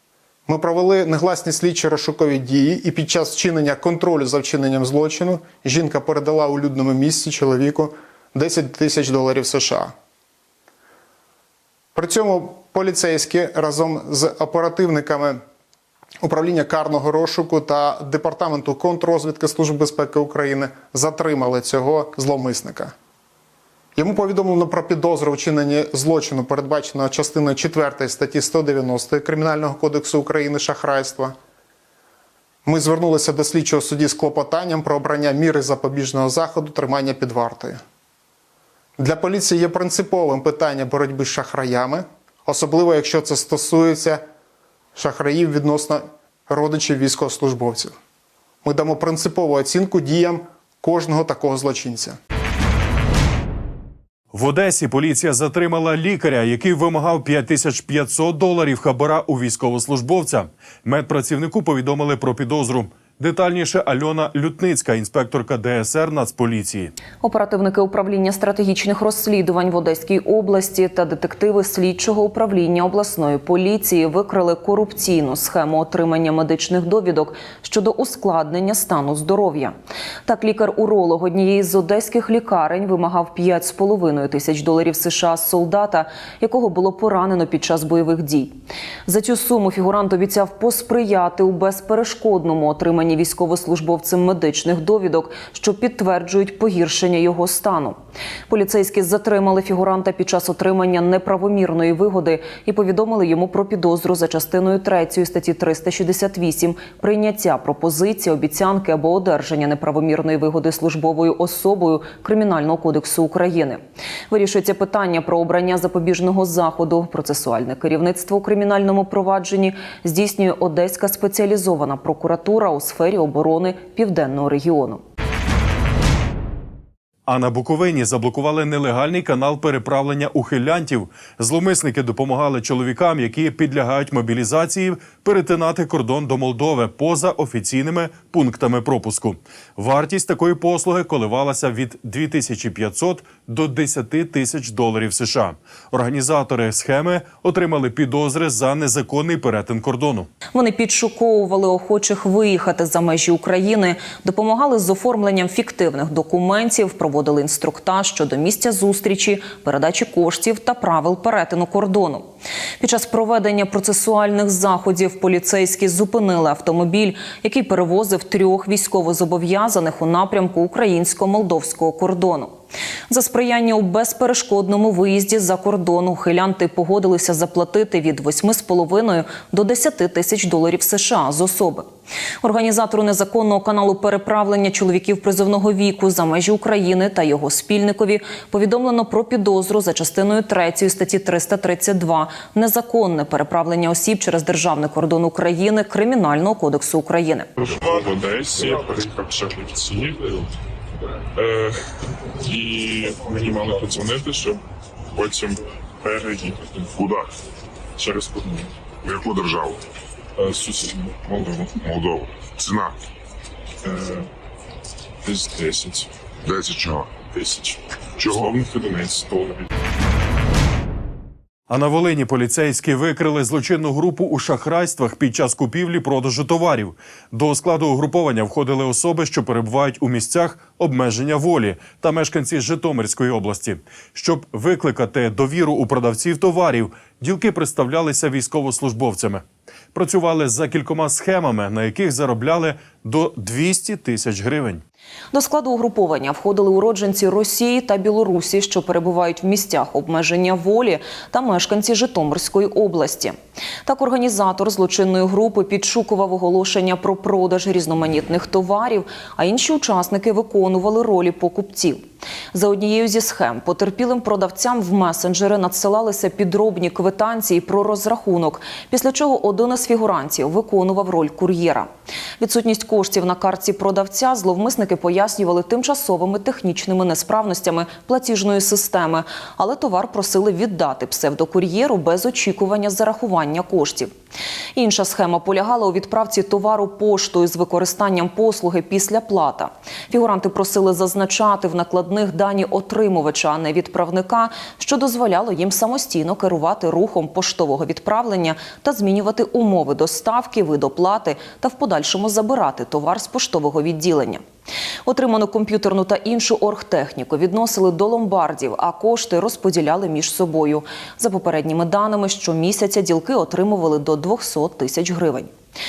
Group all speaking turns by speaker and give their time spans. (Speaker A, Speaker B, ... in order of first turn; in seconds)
Speaker A: 0.5-9.9, 11.9-15.4, 16.2-22.9, 23.9-31.3, 32.6-37.8, 39.0-44.2, 44.9-47.9, 48.6-52.2
Speaker B: 54.3-66.9, 127.2-150.3, 221.7-244.8
Speaker C: 67.2-79.7, 80.2-98.0, 98.5-125.0, 150.5-162.3, 162.8-172.5, 173.1-181.9, 182.4-197.5, 245.3-262.0, 262.5-271.9, 272.4-284.1, 284.7-304.4, 305.1-315.5
Speaker D: 197.6-200.4, 201.3-201.8, 202.4-204.6, 205.1-207.0, 208.0-208.9, 210.4-211.8, 213.8-214.3, 215.2-216.1, 217.2-219.7
Speaker E: 207.0-207.3, 209.0-209.8, 211.8-213.0, 216.4-217.2